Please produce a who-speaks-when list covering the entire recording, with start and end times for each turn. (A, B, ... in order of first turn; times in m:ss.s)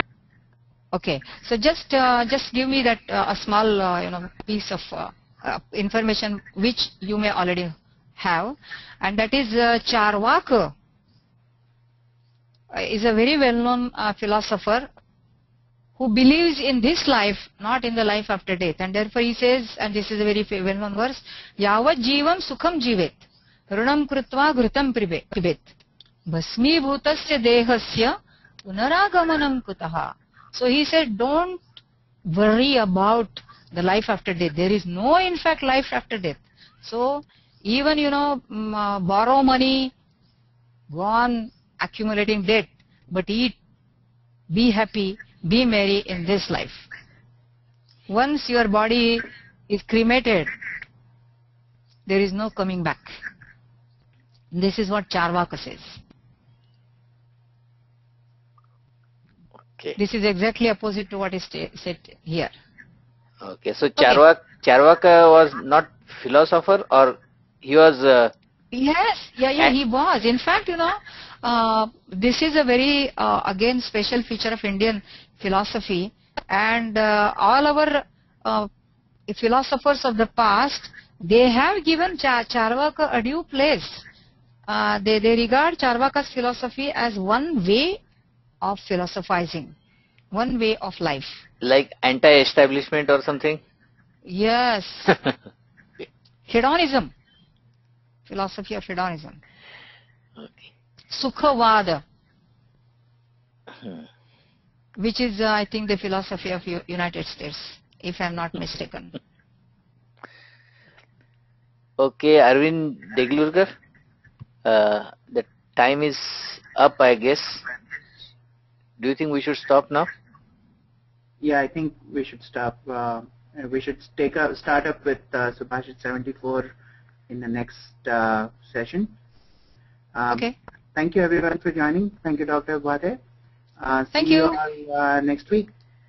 0:00.9-0:10.7 A
0:12.7-0:14.9 A
0:16.0-0:25.7 A
0:26.3-0:31.8 A
0:32.3-0:39.9 A
0:40.9-0:43.6 A
0:44.5-0:46.9 A
0:48.1-0:50.5 A
0:52.1-0:53.2 A
0:54.5-0:56.0 A
1:00.0-1:02.5 A
1:03.4-1:08.3 B
1:08.7-1:18.7 A
1:19.3-1:24.0 A
1:24.7-1:28.0 A
1:28.6-1:29.7 A
1:30.3-1:31.4 A
1:31.6-1:33.6 B
1:34.3-1:35.2 A
1:36.5-1:37.1 A
1:38.3-1:39.4 A
1:40.4-1:40.7 B
1:41.1-1:42.0 A
1:45.0-1:49.1 A
1:52.0-1:53.7 B
1:54.6-1:57.6 B
1:59.0-2:00.1 B
2:01.4-2:06.7 C
2:07.3-2:09.1 C
2:10.2-2:13.2 C
2:13.8-2:15.7 C
2:14.1-2:14.6 A